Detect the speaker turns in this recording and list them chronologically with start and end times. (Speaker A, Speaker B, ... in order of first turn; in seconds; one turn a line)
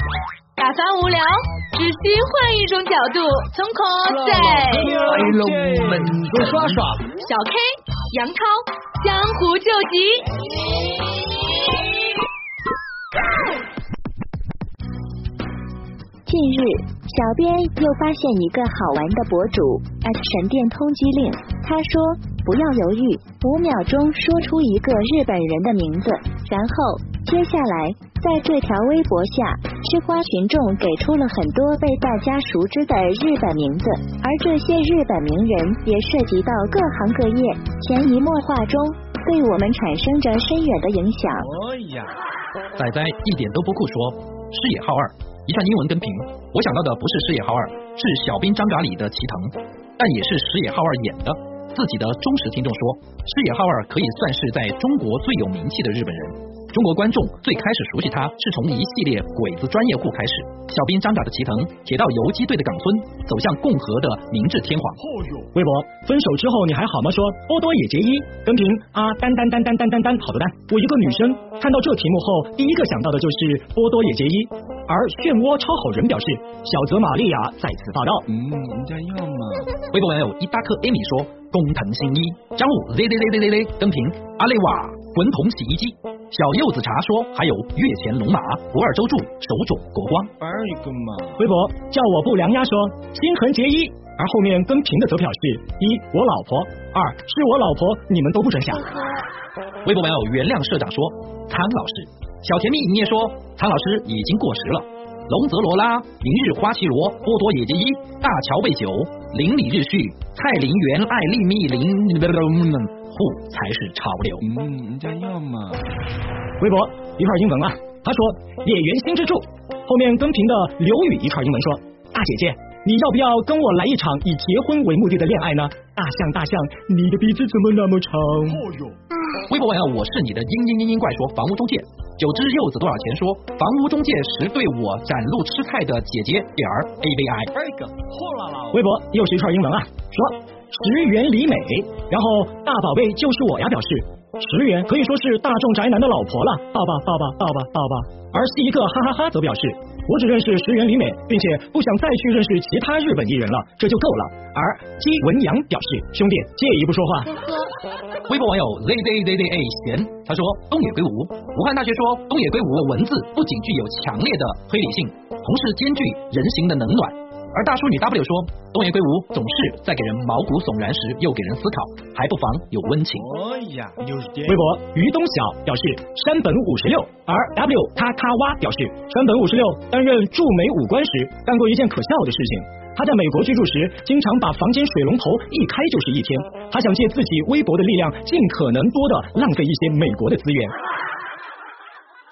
Speaker A: 0.6-5.0
Speaker B: 4.2-7.1
Speaker C: 5.0-6.0
Speaker A: 6.4-10.3
Speaker D: 16.3-41.5
Speaker C: 41.6-42.2
Speaker E: 42.8-65.0
Speaker B: 65.5-78.3
Speaker C: 78.3-79.8
Speaker E: 79.9-90.3
Speaker B: 90.4-99.2
Speaker E: 99.8-114.5
Speaker C: 114.4-115.9
Speaker B: 116.6-128.7
Speaker E: 129.5-137.5
Speaker B: 137.7-157.6
Speaker E: 158.3-173.3
Speaker C: 173.2-174.6
Speaker B: 174.4-190.8